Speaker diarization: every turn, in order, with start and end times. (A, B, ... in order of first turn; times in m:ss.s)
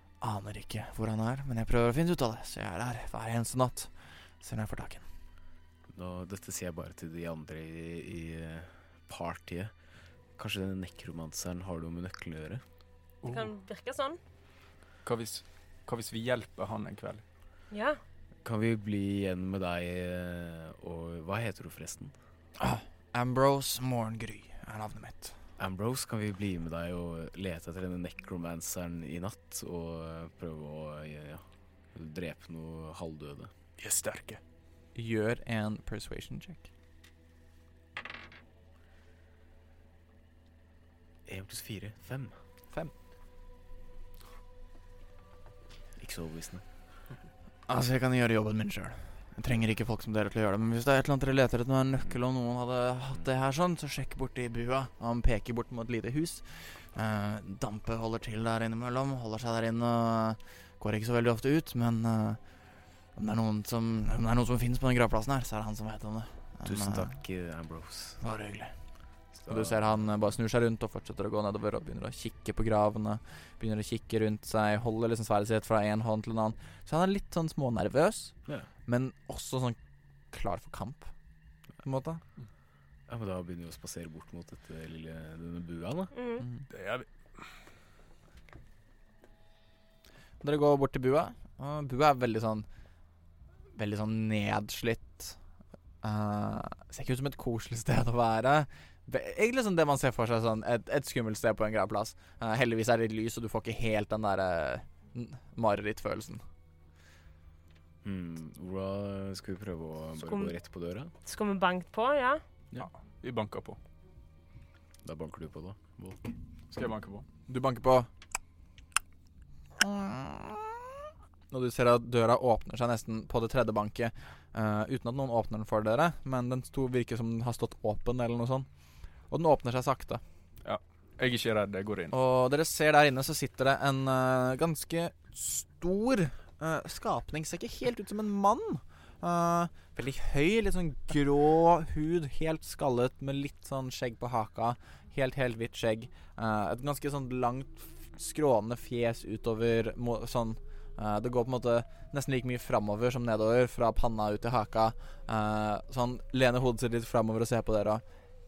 0:00.2-0:03.9 A
0:04.4-0:05.0 A
0:05.9-0:09.7 B
0:10.4-0:12.6 B
0:13.2-0:13.5 C
0:13.2-0:14.2 D
0:15.0-0:17.2 C
0:17.7-0:18.0 D
0:18.4-0:22.1 B
0:22.6-0:25.3 A
0:25.6-0:33.5 B
0:33.8-0:34.4 C
0:35.0-0:36.7 A
0:41.3-0:42.4 B
0:46.0-0:46.6 B
0:47.7-1:02.4 A
1:03.2-1:07.1 A
1:06.6-1:08.2 B
1:08.2-1:08.7 A
1:09.4-1:09.8 B
1:09.5-1:18.4 A
1:18.9-1:19.8 A
1:20.3-1:21.1 A
1:21.8-1:22.2 A
1:23.1-1:26.1 B
1:26.2-1:26.4 D
1:26.7-1:27.1 C
1:30.4-1:32.7 A
1:33.8-1:35.4 A
1:36.0-1:46.4 A
1:48.0-1:51.1 B
1:50.2-1:50.5 D
1:51.2-1:52.4 D
1:52.8-1:53.8 C
1:55.0-1:56.3 B
1:56.7-1:57.3 C
1:57.5-1:58.1 A
1:59.8-2:00.9 A
2:01.5-2:08.7 A
2:09.3-2:10.2 A
2:10.6-2:12.2 C
2:12.1-2:38.0 A